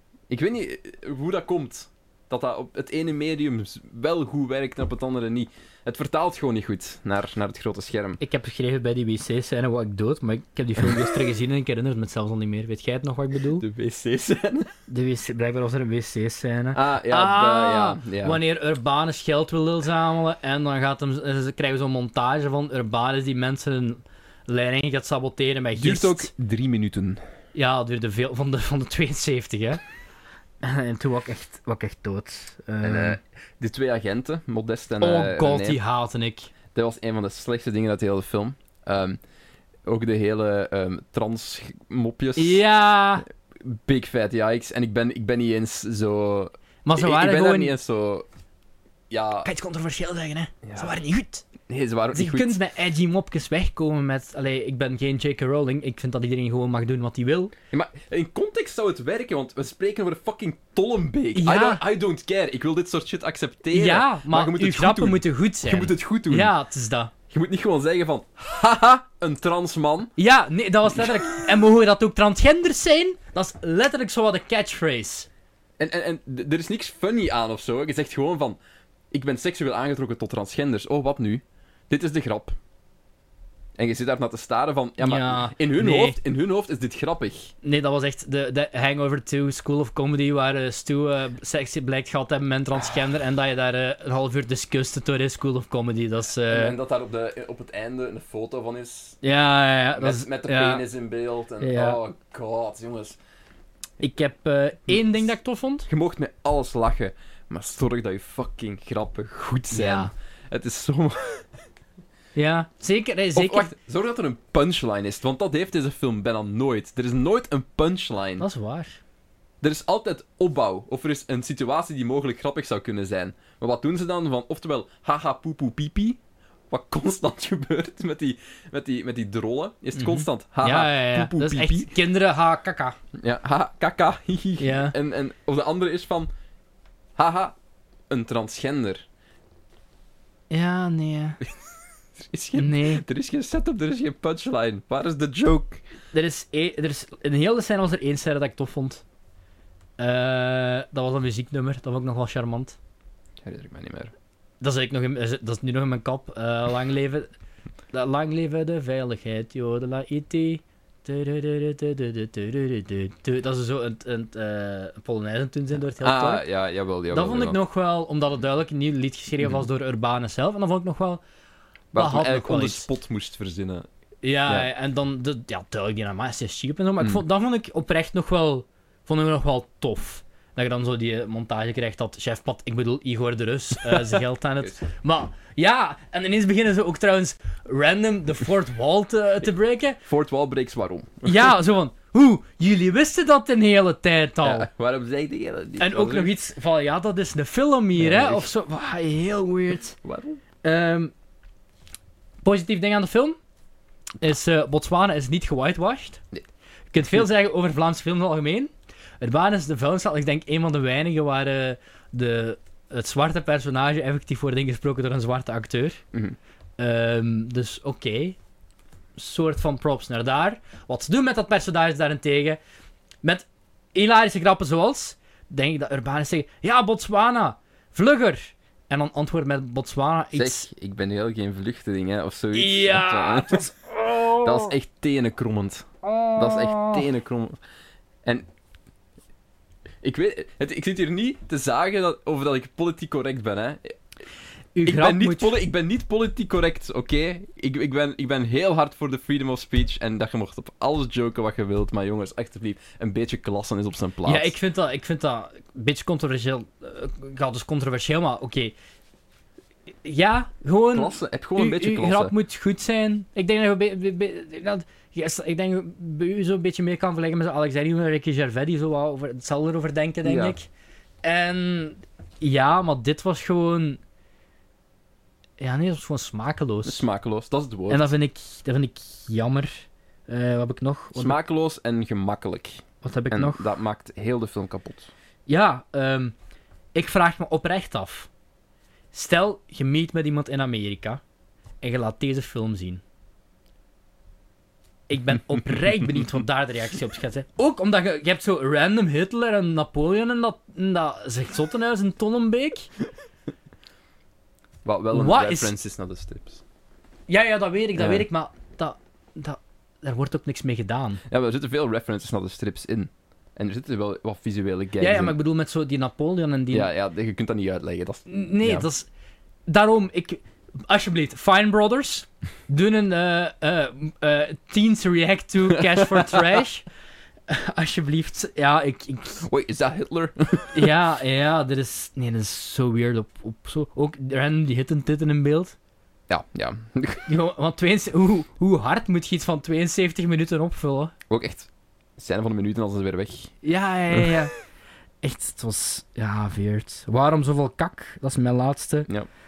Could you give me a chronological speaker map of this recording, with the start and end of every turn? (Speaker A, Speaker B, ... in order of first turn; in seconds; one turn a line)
Speaker A: 0.3-8.2
Speaker B: 8.2-13.7
Speaker A: 13.6-14.7
Speaker B: 14.9-26.3
Speaker A: 16.7-18.4
Speaker A: 25.8-27.2
Speaker B: 27.5-29.8
Speaker B: 30.6-33.2
Speaker A: 32.8-35.8
Speaker B: 35.0-36.5
Speaker A: 36.7-39.2
Speaker A: 39.9-42.6
Speaker B: 42.4-43.2
Speaker A: 43.5-48.3
Speaker B: 46.9-47.7
Speaker A: 49.1-49.5
Speaker B: 49.4-51.5
Speaker A: 50.6-50.9
Speaker A: 51.7-52.6
Speaker B: 52.1-57.5
Speaker A: 57.7-66.5
Speaker B: 61.4-61.8
Speaker B: 63.7-67.1
Speaker A: 67.3-70.1
Speaker B: 70.2-75.3
Speaker A: 75.8-78.6
Speaker A: 79.1-82.6
Speaker A: 83.8-87.5
Speaker B: 85.0-86.2
Speaker B: 87.6-96.8
Speaker A: 96.5-99.2
Speaker B: 99.2-100.8
Speaker A: 100.0-103.2
Speaker B: 101.6-102.0
Speaker B: 104.0-105.9
Speaker A: 105.9-111.5
Speaker B: 109.7-110.1
Speaker B: 112.3-113.7
Speaker A: 113.3-118.5
Speaker B: 118.4-119.0
Speaker A: 119.6-126.2
Speaker A: 126.7-131.9
Speaker B: 130.0-133.0
Speaker A: 133.1-136.3
Speaker B: 134.6-134.9
Speaker A: 137.2-137.6
Speaker A: 138.1-139.1
Speaker B: 140.5-141.4
Speaker A: 142.2-145.8
Speaker B: 142.6-143.0
Speaker B: 146.1-149.0
Speaker B: 150.0-152.8
Speaker A: 153.4-154.1
Speaker B: 154.6-157.3
Speaker B: 157.9-166.5
Speaker A: 166.0-167.6
Speaker B: 167.1-171.2
Speaker A: 171.9-173.9
Speaker B: 171.9-172.9
Speaker B: 174.2-190.0
Speaker A: 183.8-184.8
Speaker A: 190.0-191.5
Speaker B: 191.2-194.7
Speaker A: 194.4-196.3
Speaker B: 195.8-200.0
Speaker A: 198.0-198.5
Speaker A: 200.0-200.4
Speaker B: 200.6-201.1
Speaker B: 202.4-203.4
Speaker B: 204.2-206.2
Speaker B: 206.9-216.0
Speaker B: 216.8-218.4
Speaker B: 219.2-222.6
Speaker B: 223.2-230.7
Speaker A: 230.3-233.7
Speaker B: 232.5-234.8
Speaker A: 234.4-237.6
Speaker B: 236.0-237.0
Speaker A: 240.0-244.0
Speaker B: 244.8-245.6
Speaker A: 244.8-254.5
Speaker B: 254.2-258.7
Speaker B: 260.0-270.7
Speaker A: 260.9-262.4
Speaker A: 270.2-270.6
Speaker B: 271.2-274.0
Speaker B: 275.6-277.0
Speaker A: 276.8-278.1
Speaker B: 277.9-281.4
Speaker A: 281.1-285.1
Speaker B: 283.0-283.7
Speaker B: 285.5-286.3
Speaker B: 286.9-288.3
Speaker B: 289.1-291.2
Speaker B: 291.8-293.0
Speaker B: 295.1-302.9
Speaker A: 304.9-306.6
Speaker B: 305.1-305.7
Speaker B: 307.3-311.2
Speaker A: 307.9-308.3
Speaker A: 311.3-315.4
Speaker B: 315.0-316.9
Speaker A: 316.7-318.9
Speaker B: 318.3-319.1
Speaker B: 319.7-326.9
Speaker A: 325.7-326.4
Speaker B: 327.5-329.4
Speaker A: 329.4-330.9
Speaker B: 330.7-335.8
Speaker A: 336.3-337.3
Speaker B: 337.3-341.1
Speaker A: 341.3-343.5
Speaker B: 343.6-344.6
Speaker B: 345.2-349.1